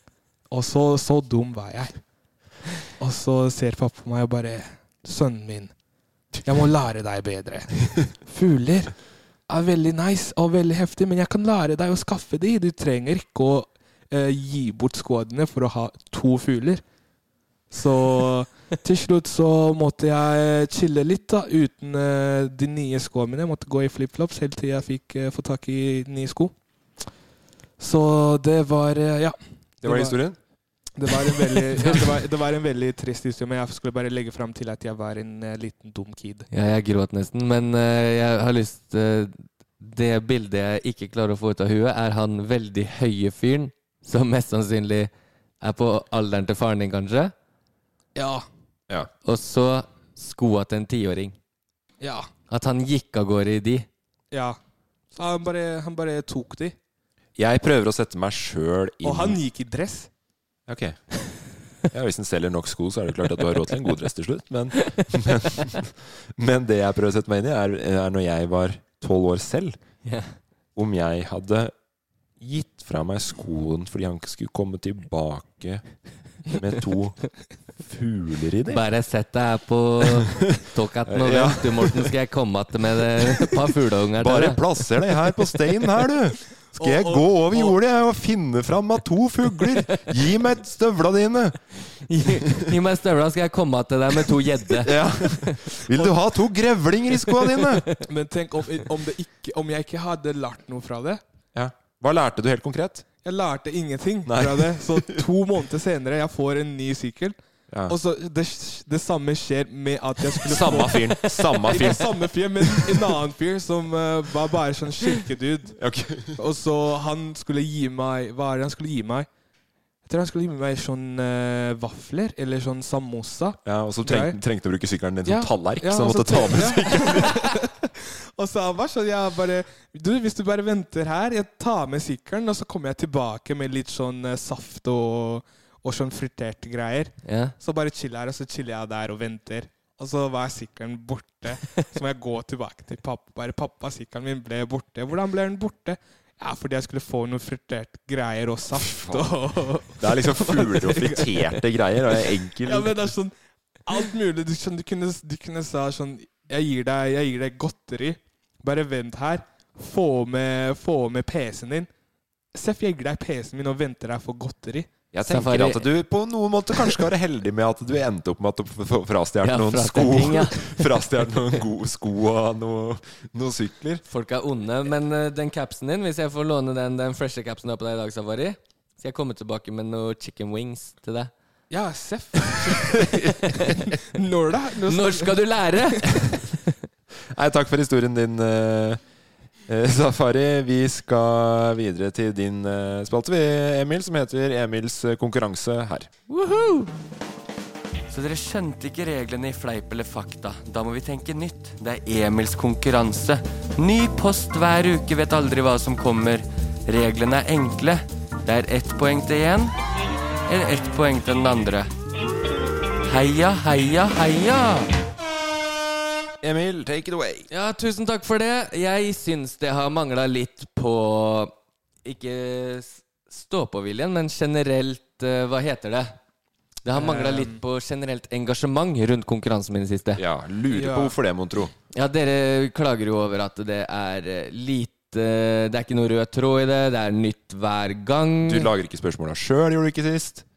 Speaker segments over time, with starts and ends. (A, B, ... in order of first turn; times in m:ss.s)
0:00.5-0:01.9 A
0:03.0-0:05.7 A
0:06.4-0:08.9 A
0:09.5-0:16.8 A
0:17.7-0:26.5 A
0:27.8-0:30.2 A
0:29.8-0:30.4 B
0:31.0-0:36.5 A
0:36.5-0:45.1 C
0:45.6-0:47.3 C
0:48.1-0:48.4 A
0:49.2-0:51.4 C
0:52.0-0:52.3 A
0:52.5-0:53.9 C
0:54.3-0:54.6 A
0:55.1-0:56.7 A
0:57.4-0:59.4 B
0:59.0-1:00.1 A
1:00.7-1:01.0 B
1:01.9-1:09.8 B
1:10.0-1:10.3 C
1:10.8-1:11.7 B
1:12.4-1:15.8 B
1:16.5-1:17.2 B
1:17.8-1:18.8 B
1:18.7-1:24.6 C
1:21.1-1:22.1 B
1:24.2-1:31.6 B
1:26.8-1:27.8 A
1:32.1-1:35.6 C
1:34.8-1:37.8 B
1:38.0-1:41.2 A
1:41.5-1:43.0 B
1:43.2-1:47.3 A
1:44.2-1:45.2 B
1:47.9-1:55.8 A
1:50.4-1:53.0 B
1:55.8-1:56.4 B
1:56.3-1:59.3 A
2:00.0-2:04.4 A
2:03.6-2:07.4 B
2:05.2-2:31.6 A
2:17.2-2:17.5 C
2:28.7-2:29.3 B
2:30.0-2:33.1 B
2:32.6-2:33.3 A
2:33.8-2:41.9 A
2:42.5-2:44.9 A
2:45.1-2:54.0 B
2:45.3-2:45.9 C
2:49.4-2:50.9 C
2:54.0-3:01.3 C
3:01.7-3:06.2 A
3:02.9-3:03.3 B
3:04.9-3:06.1 C
3:07.3-3:09.0 B
3:09.7-3:16.1 B
3:16.3-3:16.9 C
3:18.1-3:29.7 C
3:30.5-3:31.9 C
3:33.0-3:34.9 C
3:36.4-3:37.5 B
3:37.5-3:41.5 C
3:42.0-3:46.2 C
3:46.8-3:50.2 C
3:46.9-3:47.6 A
3:50.2-3:51.7 B
3:50.7-3:51.1 A
3:51.9-3:58.7 C
3:58.4-4:00.4 B